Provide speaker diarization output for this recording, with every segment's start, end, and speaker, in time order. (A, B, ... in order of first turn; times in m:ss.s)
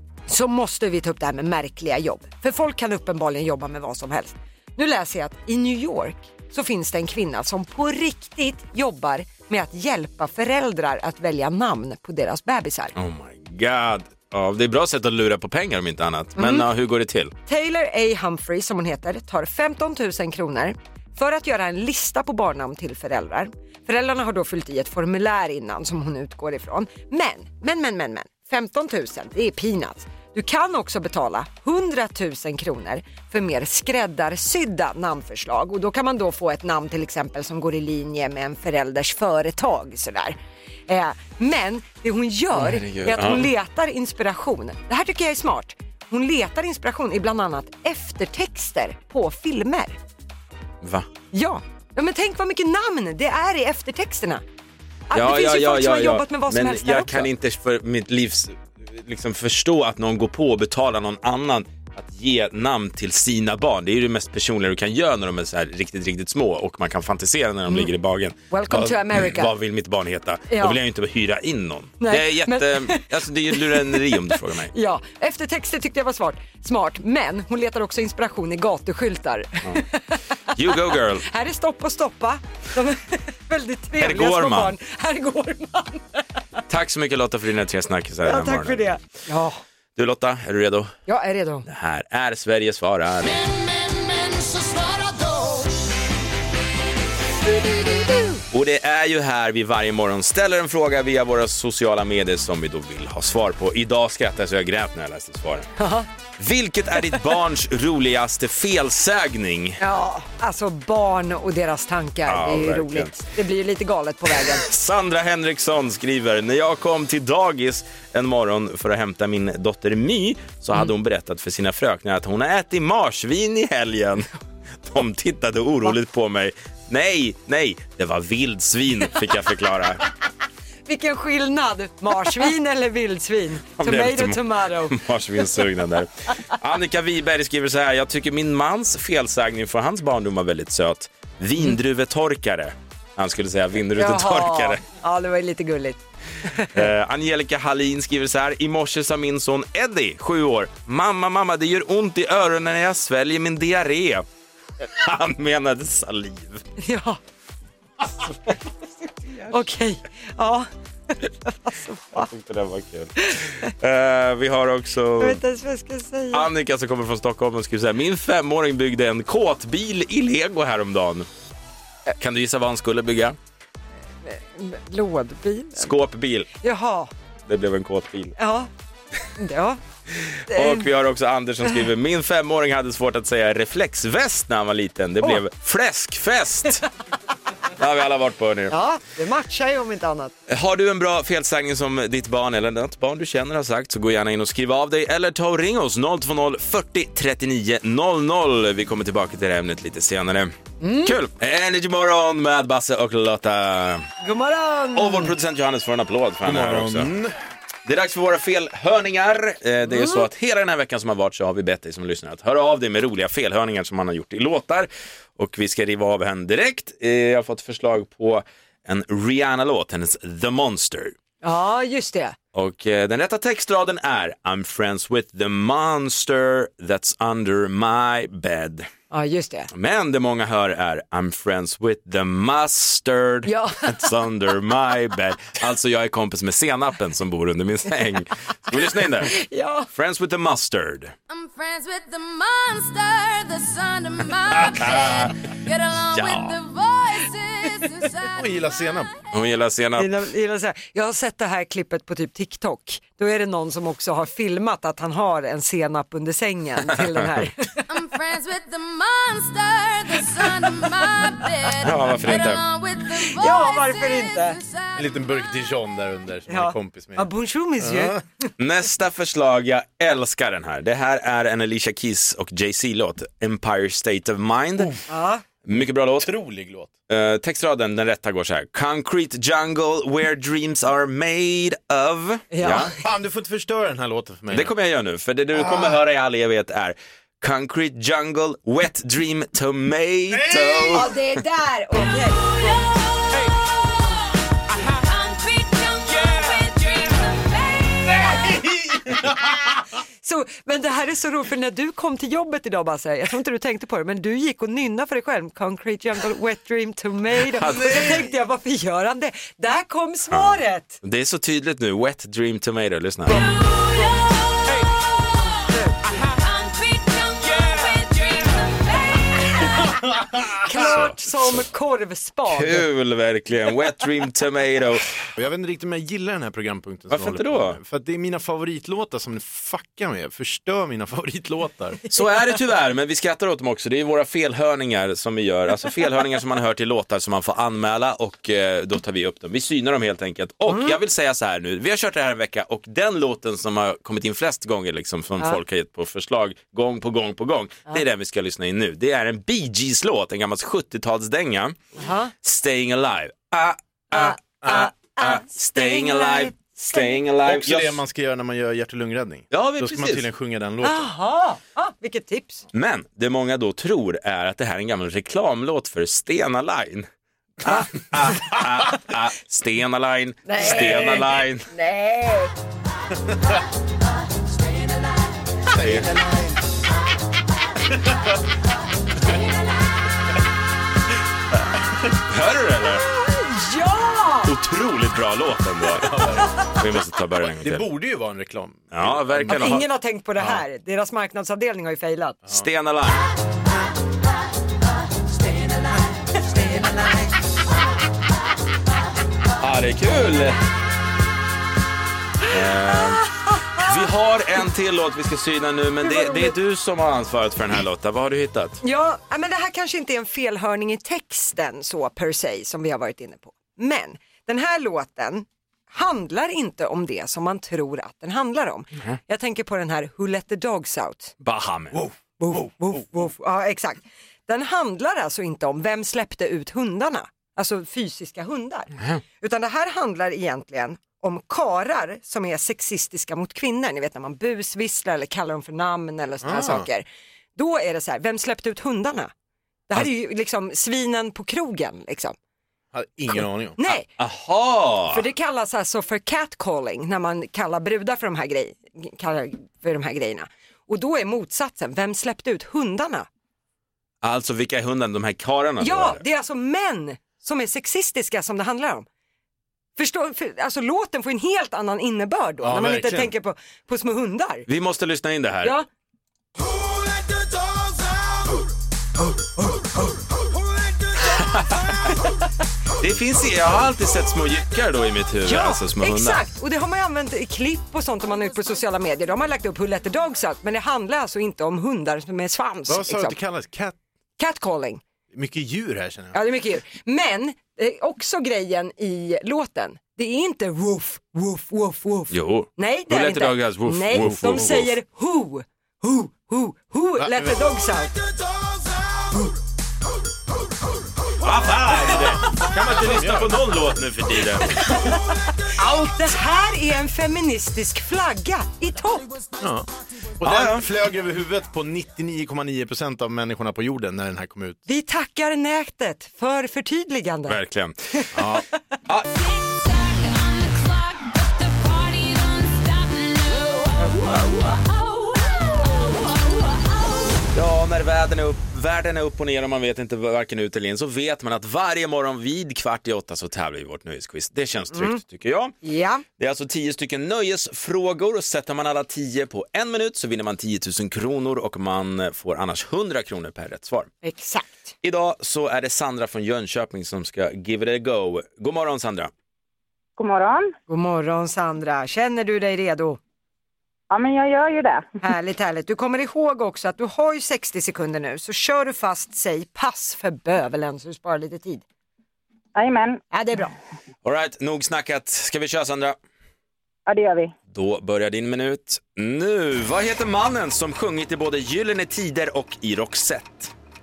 0:00.3-0:12.9 A
0:13.0-0:17.3 B
0:16.4-0:16.7 A
0:17.5-0:40.4 A
0:40.9-0:50.0 A
0:42.5-0:43.5 B
0:50.8-0:51.1 B
0:51.3-0:54.4 A
0:55.1-0:57.3 A
0:55.1-1:14.7 B
1:08.5-1:09.5 A
1:10.5-1:10.8 A
1:12.0-1:14.2 A
1:14.7-1:20.2 A
1:20.5-1:21.2 B
1:21.2-1:26.2 A
1:24.0-1:24.7 B
1:26.7-1:28.9 B
1:28.2-1:29.6 A
1:29.9-1:30.9 B
1:31.1-1:31.6 A
1:31.6-1:33.4 B
1:33.8-1:35.6 C
1:37.4-1:38.4 A
1:38.5-1:45.7 B
1:45.8-1:46.1 A
1:46.4-1:49.8 B
1:49.8-1:54.7 A
1:52.2-1:53.1 B
1:54.3-2:04.3 B
2:04.8-2:10.0 B
2:10.9-2:15.0 A
2:13.8-2:24.8 B
2:23.9-2:26.9 A
2:26.7-2:34.2 B
2:34.9-2:36.6 B
2:36.8-2:37.2 A
2:39.3-2:39.5 B
2:39.5-2:42.3 A
2:42.1-2:45.4 B
2:45.2-2:46.5 A
2:46.3-2:51.3 B
2:52.2-2:53.4 B
2:54.2-2:55.9 A
2:55.8-2:56.5 B
2:56.6-2:57.1 A
2:57.5-2:58.4 B
2:58.4-2:58.7 A
2:59.4-2:59.8 A
3:00.5-3:06.8 B
3:00.5-3:00.9 A
3:07.8-3:08.8 B
3:08.7-3:10.3 A
3:10.5-3:24.1 B
3:20.8-3:21.2 A
3:24.2-3:25.3 A
3:24.9-3:27.1 B
3:26.4-3:27.3 D
3:27.8-3:41.1 B
3:29.9-3:30.2 A
3:41.4-3:42.4 A
3:42.5-3:48.9 B
3:49.1-3:49.7 A
3:49.7-3:59.4 B
3:53.4-3:54.0 A
3:59.2-3:59.9 A
3:59.9-4:01.1 B
4:01.3-4:08.9 C
4:04.6-4:05.3 B
4:06.1-4:06.5 B
4:08.3-4:09.1 D
4:09.3-4:10.1 B
4:10.0-4:17.9 A
4:17.9-4:25.4 C
4:21.8-4:22.6 B
4:23.3-4:24.6 A
4:24.9-4:28.2 D
4:26.5-4:28.2 A
4:28.6-4:35.0 B
4:35.1-4:35.4 A
4:35.6-4:36.3 B
4:35.8-4:36.9 D
4:37.1-4:42.9 B
4:42.5-4:43.0 A
4:43.0-4:44.7 D
4:44.5-4:51.1 B
4:50.3-4:51.0 D
4:50.9-4:52.8 A
4:52.9-4:54.2 C
4:54.7-4:58.5 C
4:58.5-4:59.4 D
5:00.2-5:11.0 A
5:07.5-5:08.2 B
5:11.0-5:13.5 B
5:13.4-5:15.5 C
5:16.1-5:19.7 C
5:20.6-5:22.8 A
5:20.8-5:21.6 B
5:22.5-5:25.1 B
5:25.3-5:32.0 D
5:27.1-5:27.8 B
5:32.1-5:51.8 B
5:40.7-5:41.0 A
5:52.0-5:52.3 A
5:52.4-5:58.0 B
5:54.1-5:57.2 A
5:57.4-6:01.1 D
5:59.5-6:00.3 B
6:00.8-6:02.6 A
6:02.7-6:07.1 B
6:07.6-6:11.7 B
6:10.4-6:12.5 A
6:15.7-6:16.5 D
6:15.7-6:16.1 B
6:21.7-6:23.0 B
6:23.0-6:24.5 A
6:24.4-6:26.2 B
6:25.9-6:26.6 D
6:26.7-6:27.9 B
6:27.6-6:29.8 D
6:28.9-6:29.8 B
6:29.5-6:32.4 A
6:32.5-6:33.2 B
6:36.5-6:37.2 A
6:39.6-6:40.6 B
6:42.5-6:48.8 B
6:43.4-6:43.9 A
6:46.0-6:46.5 A
6:48.8-7:01.3 A
7:01.4-7:02.1 B
7:02.4-7:19.3 A
7:16.4-7:16.9 D
7:19.9-7:22.3 A
7:22.9-7:23.9 D
7:23.8-7:24.1 A
7:24.2-7:25.2 B
7:25.1-7:33.3 A
7:34.2-7:36.2 B
7:35.8-7:39.0 A
7:40.0-7:44.7 A
7:42.6-7:43.3 D
7:44.7-7:45.7 B
7:49.2-7:50.1 A
7:51.4-7:51.7 B
7:53.0-7:56.4 B
7:55.4-8:03.4 A
8:02.9-8:04.0 D
8:04.4-8:05.0 A
8:05.3-8:06.4 D
8:06.3-8:18.2 A
8:12.3-8:14.9 B
8:14.1-8:14.8 D
8:17.2-8:17.6 D
8:21.4-8:24.9 B
8:21.8-8:23.7 D
8:25.8-8:29.3 A
8:29.6-8:29.9 D
8:30.4-8:34.8 D
8:30.4-8:30.9 B
8:34.8-8:37.6 A
8:37.5-8:39.3 B
8:38.3-8:38.6 D
8:39.4-8:47.3 C
8:47.5-8:55.7 B
8:54.9-8:55.2 A
8:55.8-8:56.2 A
8:56.4-9:04.1 B
9:04.2-9:04.9 A
9:05.0-9:09.3 B
9:10.2-9:10.7 E
9:10.9-9:13.2 A
9:14.1-9:15.0 E
9:15.2-9:21.8 A
9:22.7-9:23.2 E
9:23.3-9:23.7 A
9:24.2-9:26.2 B
9:27.1-9:27.5 E
9:27.7-9:33.7 B